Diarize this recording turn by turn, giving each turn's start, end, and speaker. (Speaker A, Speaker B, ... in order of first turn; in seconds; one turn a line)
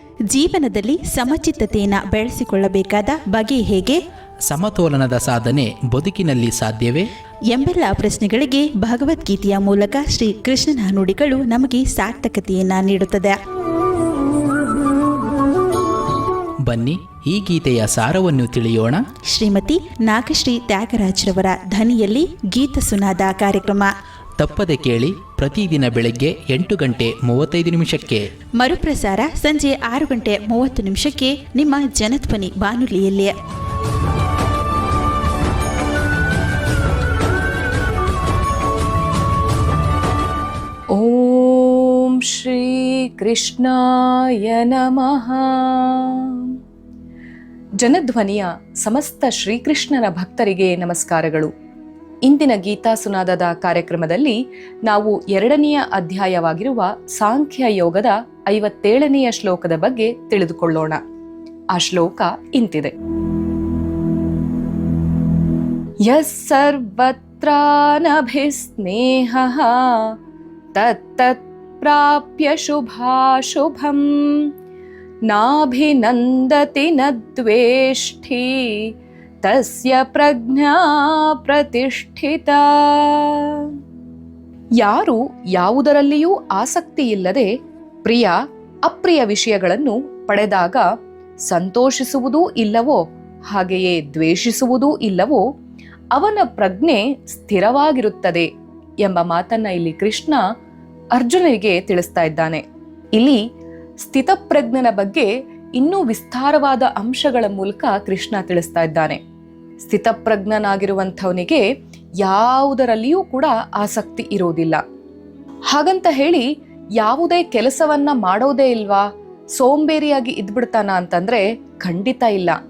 Speaker A: 0.3-4.0
Speaker B: 4.5-7.0
Speaker A: 7.5-13.3
Speaker B: 16.6-19.0
Speaker A: 19.3-23.9
Speaker B: 24.4-28.2
Speaker A: 28.6-33.3
Speaker C: 40.9-46.5
Speaker C: 47.8-51.5
Speaker C: 52.2-61.0
Speaker C: 61.7-62.9
Speaker C: 66.1-70.1
Speaker C: 70.7-74.4
Speaker C: 75.3-78.9
Speaker C: 79.4-83.7
Speaker C: 84.8-87.5
Speaker C: 88.0-90.8
Speaker C: 91.4-95.4
Speaker C: 96.1-98.5
Speaker C: 99.0-100.4
Speaker C: 101.1-102.6
Speaker C: 103.1-103.4
Speaker C: 104.0-109.2
Speaker C: 109.8-111.6
Speaker C: 112.2-114.8
Speaker C: 115.7-116.4
Speaker C: 117.0-122.6